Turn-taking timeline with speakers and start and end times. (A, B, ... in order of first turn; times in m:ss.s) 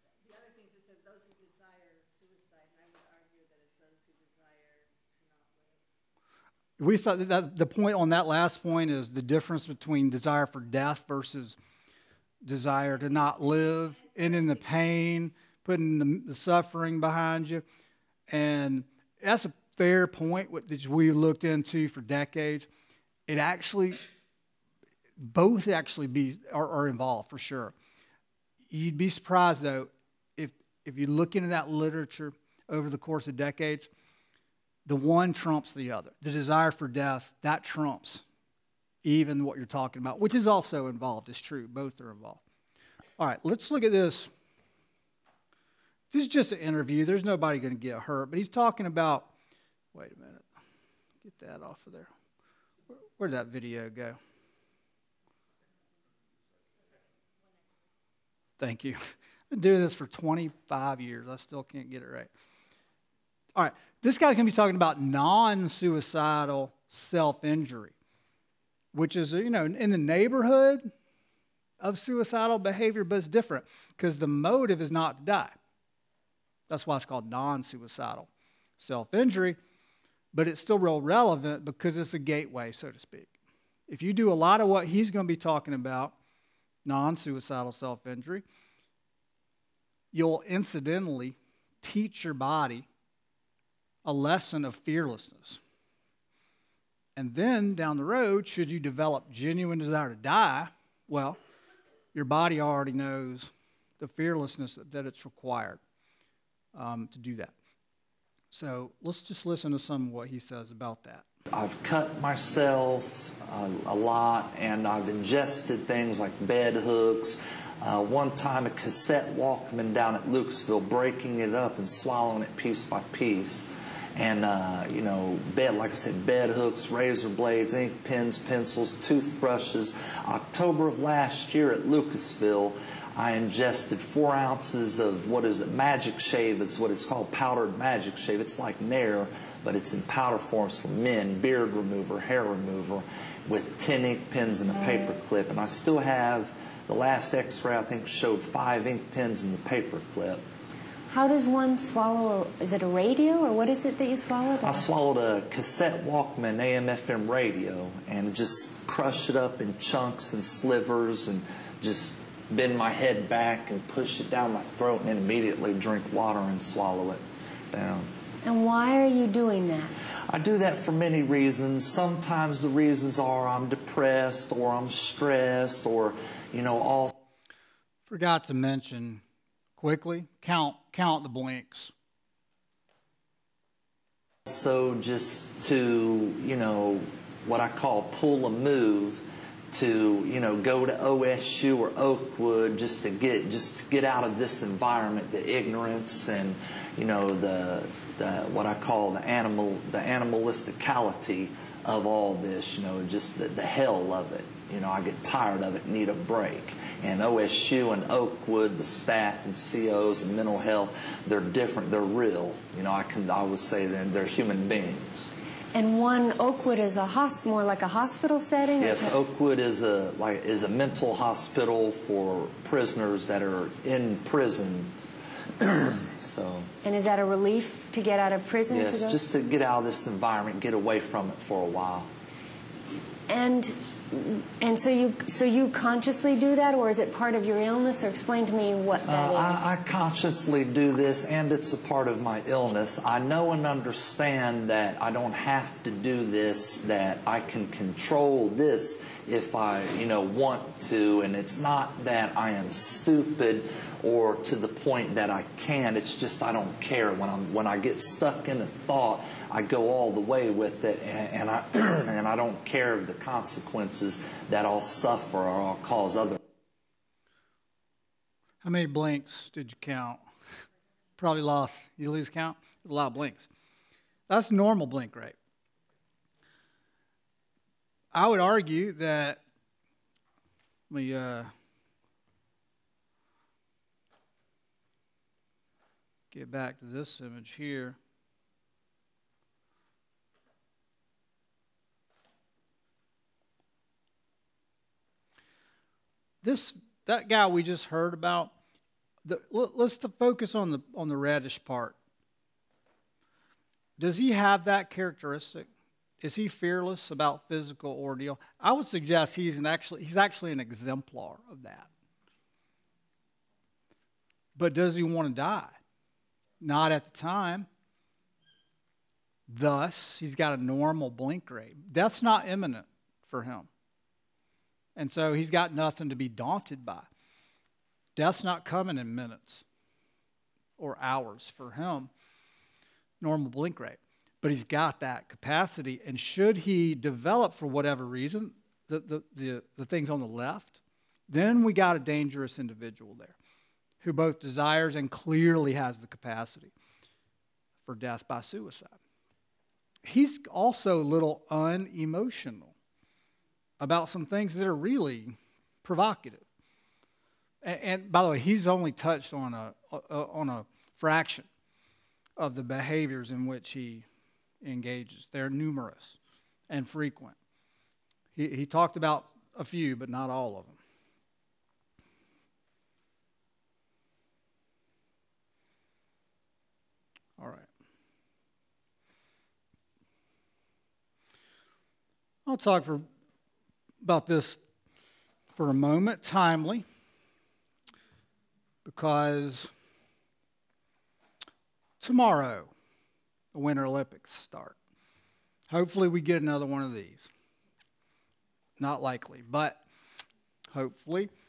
0:00.2-0:05.8 A
0:06.8-0:11.6 B
0:12.4-0:17.6 B
0:14.0-0:14.6 A
0:18.3-0:22.7 B
0:23.3-0:24.0 B
0:25.2-0:27.8 B
0:28.7-0:33.9 B
0:34.9-0:38.2 B
0:39.0-0:42.4 B
0:43.2-0:44.3 B
0:46.1-0:49.3 B
0:49.9-0:50.5 B
0:51.2-0:52.1 B
0:53.2-0:54.2 B
0:56.8-0:57.9 A
0:58.6-0:59.0 B
0:59.5-1:02.3 B
1:03.6-1:07.9 B
1:08.9-1:10.9 B
1:11.8-1:15.6 B
1:16.7-1:19.6 B
1:20.3-1:23.3 B
1:23.9-1:26.2 B
1:26.8-1:28.4 B
1:30.1-1:32.9 B
1:34.0-1:35.6 B
1:37.2-1:41.4 B
1:42.1-1:45.8 B
1:46.8-1:47.5 B
1:48.5-1:51.2 B
1:51.5-2:30.4 C
2:31.1-2:34.9 D
2:34.6-2:48.1 C
2:48.4-2:49.9 D
2:50.3-2:57.1 C
2:58.1-2:59.2 B
2:59.8-3:01.9 B
3:04.5-3:35.3 C
3:35.7-3:39.2 D
3:38.8-3:44.9 C
3:45.6-3:46.7 C
3:46.8-3:49.2 D
3:48.7-3:52.1 C
3:53.3-3:59.7 D
3:59.1-4:26.4 C
4:28.6-4:30.2 B
4:31.2-4:33.5 B
4:34.3-4:35.4 B
4:38.1-4:39.4 B
4:40.9-4:41.5 B
4:46.3-4:48.0 B
4:56.4-4:58.5 B
4:59.2-5:02.0 B
5:04.0-5:05.7 B
5:06.2-5:11.9 B
5:14.6-5:15.8 B
5:16.6-5:17.7 B
5:19.5-5:23.7 B
5:25.0-5:27.1 B
5:28.2-5:29.6 B
5:30.8-5:32.1 B
5:33.2-5:43.4 B
5:44.0-5:46.7 B
5:47.9-5:49.0 B
5:50.0-5:52.7 B
5:53.8-5:56.4 B
5:57.6-6:01.5 B
6:02.4-6:04.0 B
6:04.6-6:06.2 B
6:06.7-6:07.4 B
6:08.4-6:10.8 B
6:17.4-6:17.7 B
6:22.5-6:23.1 B
6:24.0-6:24.6 B
6:25.5-6:26.9 B
6:28.8-6:29.7 B
6:32.0-6:32.7 B
6:33.5-6:34.8 B
6:35.7-6:37.3 B
6:38.8-6:39.8 B
6:40.7-6:41.3 B